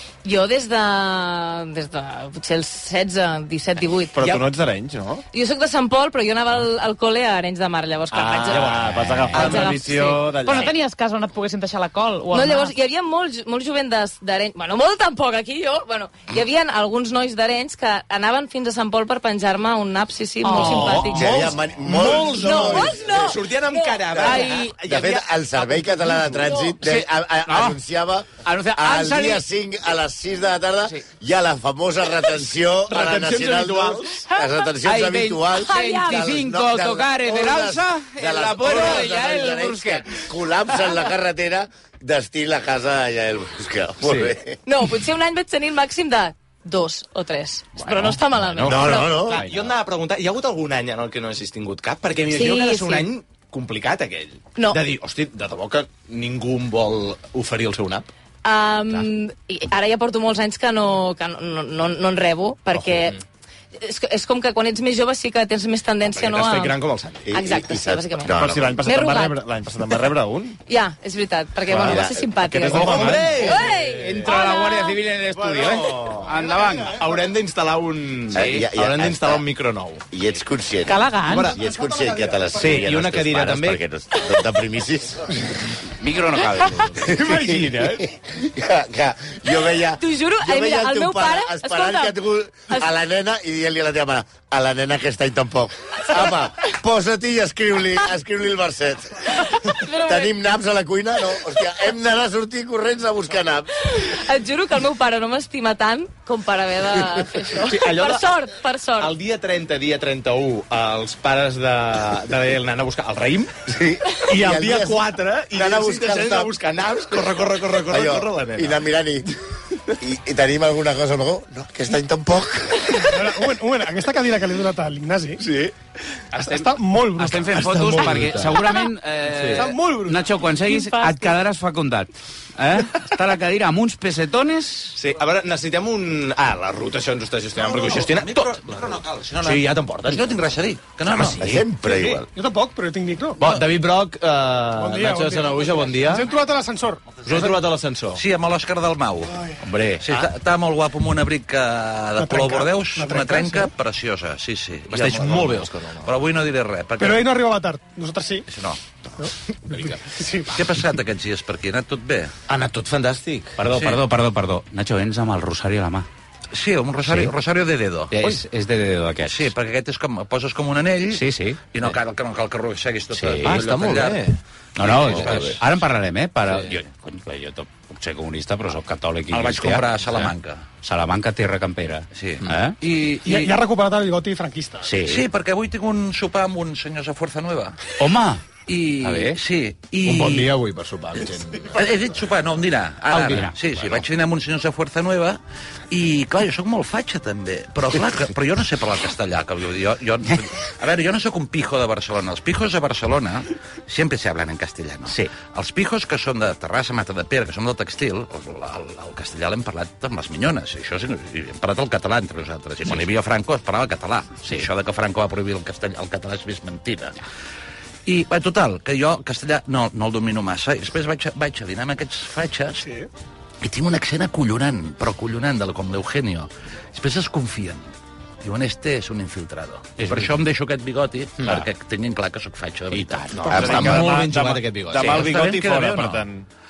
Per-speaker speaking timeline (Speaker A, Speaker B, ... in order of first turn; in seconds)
Speaker A: 0.2-4.5, 5.3-10.3, 12.3-21.5, 22.3-24.6, 26.4-26.7, 35.6-36.3, 44.6-49.4, 52.3-53.1, 54.5-54.8, 58.4-63.2, 63.8-66.8, 67.3-69.4, 70.7-75.0, 90.0-92.2, 99.4-100.4, 103.9-109.1
Speaker B: 4.1-5.2, 8.1-10.8, 68.3-70.6, 71.7-73.5, 233.4-236.4
Speaker C: 8.5-9.7, 20.6-26.3, 32.9-34.3, 44.0-44.4, 47.9-58.1, 66.1-67.4, 72.7-74.2, 75.4-76.4, 76.9-80.0, 81.2-81.6, 82.6-83.8, 87.1-88.1, 107.6-108.4, 109.0-113.6, 114.2-118.8, 125.4-125.7, 127.5-128.7, 129.3-129.7, 134.9-140.5, 141.0-141.6, 143.4-146.3, 147.2-148.2, 149.9-150.3, 154.9-156.1, 159.7-160.1, 162.5-163.8, 173.4-174.4, 190.0-191.8, 193.1-193.4, 233.3-235.3
Speaker D: 8.7-9.6, 20.8-21.1, 26.8-27.8, 28.4-29.4, 34.8-40.3, 72.7-77.0, 78.3-78.7, 86.0-87.1, 126.3-134.9, 149.6-150.0, 163.6-166.1, 167.0-167.3, 168.1-169.5, 171.1-171.7, 173.1-173.6, 174.8-180.3, 180.8-182.8, 184.8-185.2, 188.0-188.4, 189.0-189.4, 193.1-193.5, 205.1-205.3, 230.0-230.3, 232.9-234.0
Speaker E: 10.3-12.7, 20.4-21.2, 80.8-81.5, 130.5-131.3
Speaker F: 21.1-23.0, 24.2-44.6, 48.6-49.4, 67.3-68.8, 71.7-72.8, 78.3-79.4, 80.1-85.5, 87.1-103.7, 113.7-116.5, 117.9-119.3, 120.0-123.1, 141.4-142.3, 233.6-233.9
Speaker G: 123.0-125.4, 126.3-128.1, 129.6-130.2, 141.9-143.5, 144.7-147.1, 152.2-153.7, 157.0-158.5, 159.2-160.6, 183.2-184.9, 222.8-223.1
Speaker H: 137.6-141.5, 148.1-149.4, 150.0-157.3, 158.5-158.8, 160.5-162.3, 163.7-164.0, 166.5-168.1, 169.2-174.2, 174.8-175.6, 179.3-180.6, 182.1-183.6, 185.0-187.8, 188.7-190.5, 191.7-195.4, 195.9-217.2, 218.1-222.9, 223.6-227.8, 228.4-233.6, 235.0-236.2